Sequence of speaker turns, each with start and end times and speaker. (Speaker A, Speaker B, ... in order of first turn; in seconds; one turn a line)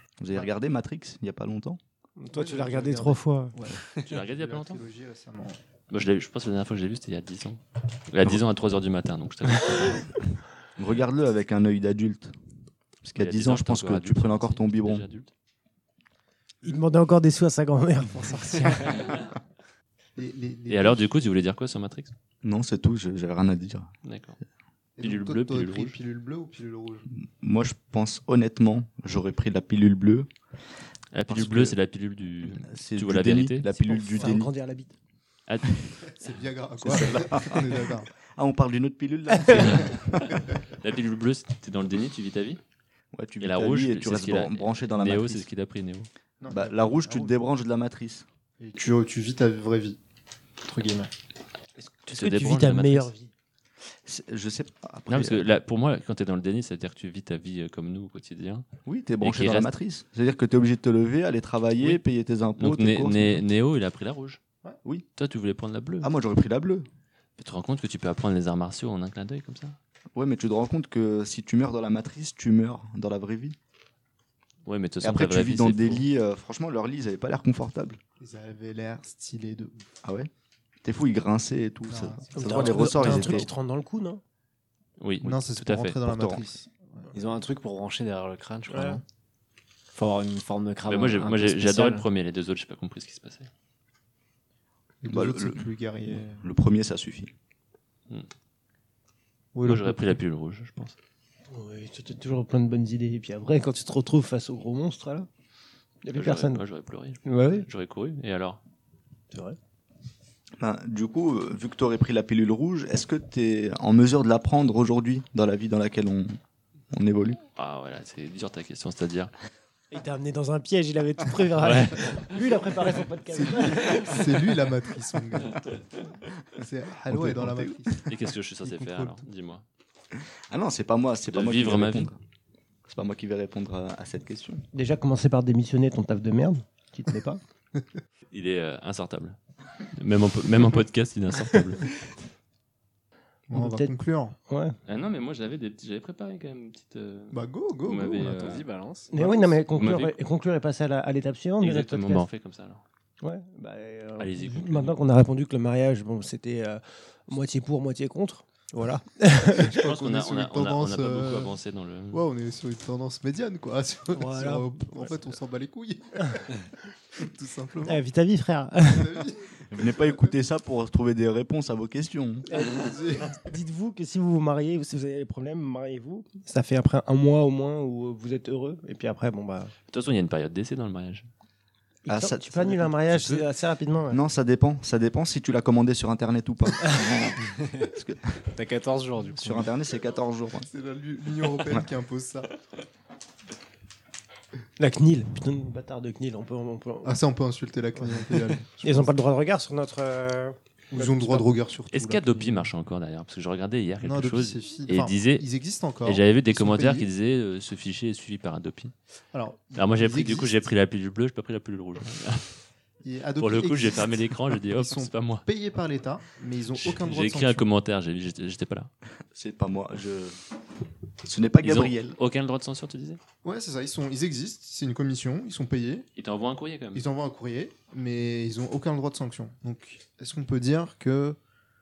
Speaker A: 0.2-1.8
Speaker B: 2.2-3.6
Speaker C: 2.3-5.6
Speaker D: 4.0-4.8
Speaker D: 5.9-10.2
Speaker A: 10.8-12.3
Speaker A: 13.0-15.1
Speaker D: 13.2-15.3
Speaker B: 16.6-19.1
Speaker C: 20.2-21.1
Speaker D: 20.7-22.1
Speaker A: 22.4-23.9
Speaker D: 24.1-24.4
Speaker C: 25.0-27.1
Speaker D: 25.0-26.0
Speaker A: 27.1-30.3
Speaker D: 31.1-33.8
Speaker A: 31.3-31.8
Speaker A: 32.4-34.5
Speaker B: 33.9-34.9
Speaker D: 35.5-35.8
Speaker C: 36.0-38.1
Speaker A: 36.8-40.5
Speaker D: 39.5-40.0
Speaker D: 40.6-42.6
Speaker A: 43.1-45.5
Speaker D: 43.4-46.1
Speaker C: 46.4-47.4
Speaker A: 46.5-48.3
Speaker C: 48.6-50.0
Speaker C: 50.6-51.1
Speaker B: 51.8-53.3
Speaker D: 52.1-53.1
Speaker A: 54.0-55.5
Speaker D: 55.1-58.6
Speaker A: 58.9-63.4
Speaker D: 59.2-59.7
Speaker D: 62.6-64.4
Speaker D: 65.2-66.1
Speaker A: 66.0-66.9
Speaker D: 67.4-69.8
Speaker A: 70.2-73.6
Speaker D: 74.7-76.1
Speaker A: 75.0-78.0
Speaker C: 78.2-79.8
Speaker A: 80.0-80.3
Speaker A: 80.8-83.5
Speaker C: 81.8-83.5
Speaker B: 82.3-84.2
Speaker D: 85.0-86.0
Speaker C: 85.2-87.1
Speaker A: 86.0-86.5
Speaker E: 87.1-89.0
Speaker B: 88.7-89.0
Speaker E: 89.9-92.0
Speaker D: 90.9-93.5
Speaker C: 95.0-96.5
Speaker A: 95.1-95.6
Speaker A: 96.4-97.3
Speaker C: 99.5-100.2
Speaker D: 99.6-101.0
Speaker B: 101.5-105.3
Speaker B: 106.0-106.6
Speaker D: 106.1-108.6
Speaker B: 107.3-107.7
Speaker B: 109.3-109.6
Speaker A: 110.6-116.4
Speaker A: 116.9-117.4
Speaker D: 117.6-119.3
Speaker B: 119.9-124.3
Speaker D: 121.6-122.4
Speaker C: 123.3-125.7
Speaker C: 126.5-129.3
Speaker A: 127.1-128.0
Speaker D: 128.1-129.6
Speaker A: 130.1-132.2
Speaker D: 131.3-132.1
Speaker A: 132.9-134.7
Speaker B: 134.7-137.4
Speaker D: 138.3-139.4
Speaker D: 139.9-141.9
Speaker C: 143.5-144.3
Speaker B: 143.5-143.9
Speaker B: 144.5-144.8
Speaker D: 144.9-148.7
Speaker C: 147.3-148.6
Speaker E: 148.2-149.1
Speaker B: 149.1-152.3
Speaker C: 149.2-149.5
Speaker D: 149.7-150.2
Speaker D: 151.6-152.8
Speaker B: 153.2-159.7
Speaker D: 154.2-155.0
Speaker C: 158.7-161.6
Speaker D: 159.8-162.2
Speaker C: 162.1-166.6
Speaker B: 164.1-165.1
Speaker C: 167.1-168.0
Speaker B: 167.8-169.2
Speaker C: 168.8-170.3
Speaker A: 169.7-172.5
Speaker C: 172.5-173.4
Speaker B: 172.5-179.7
Speaker D: 179.9-181.3
Speaker B: 182.1-184.2
Speaker A: 182.1-183.3
Speaker A: 184.1-188.5
Speaker E: 187.6-187.9
Speaker E: 188.6-189.7
Speaker A: 189.4-190.7
Speaker C: 190.7-192.5
Speaker B: 194.8-197.2
Speaker C: 197.0-199.1
Speaker B: 198.0-201.5
Speaker C: 200.9-202.7
Speaker D: 201.9-205.5
Speaker C: 204.0-207.1
Speaker D: 206.1-208.9
Speaker C: 209.3-210.7
Speaker D: 209.8-212.5
Speaker C: 213.0-217.7
Speaker D: 213.4-215.4
Speaker D: 216.8-218.9
Speaker A: 219.3-220.4
Speaker A: 221.2-222.2
Speaker D: 221.6-223.2
Speaker C: 223.4-226.1
Speaker D: 226.2-227.1
Speaker C: 226.9-231.4